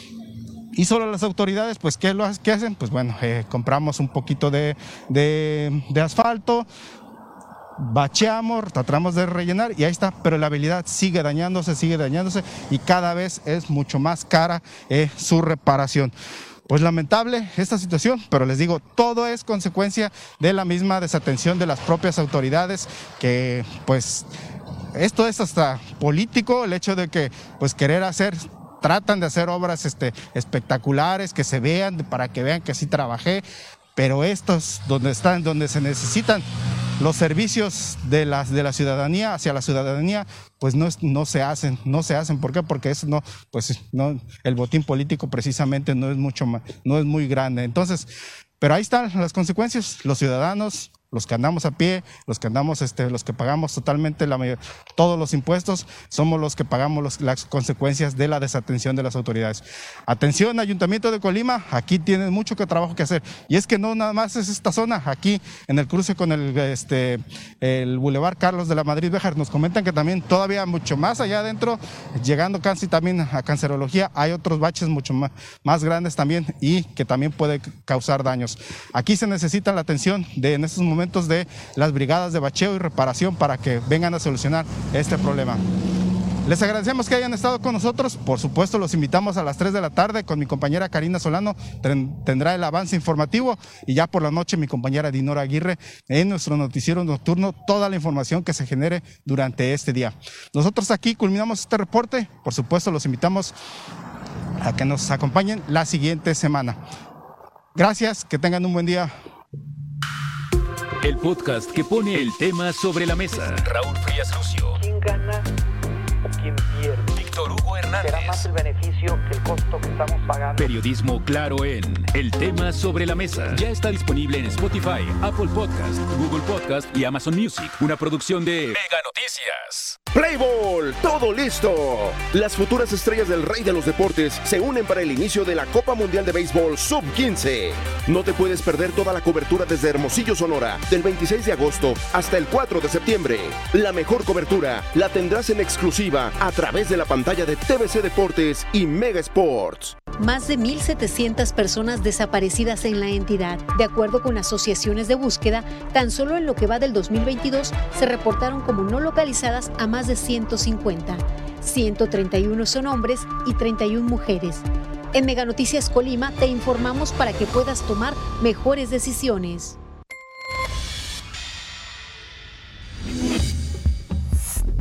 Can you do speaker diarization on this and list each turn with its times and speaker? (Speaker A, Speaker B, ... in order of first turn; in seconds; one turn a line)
Speaker A: 0.7-6.7
Speaker A: 7.8-16.1
Speaker A: 16.7-24.3
Speaker A: 24.9-33.4
Speaker A: 34.0-36.4
Speaker A: 37.0-48.1
Speaker A: 48.6-85.6
Speaker A: 86.4-103.5
Speaker A: 104.6-106.8
Speaker A: 107.7-109.1
Speaker B: 111.0-114.8
Speaker C: 114.8-115.4
Speaker C: 116.4-117.0
Speaker B: 117.1-118.5
Speaker C: 118.4-120.6
Speaker B: 120.6-130.0
Speaker D: 130.1-149.9
Speaker E: 150.2-169.8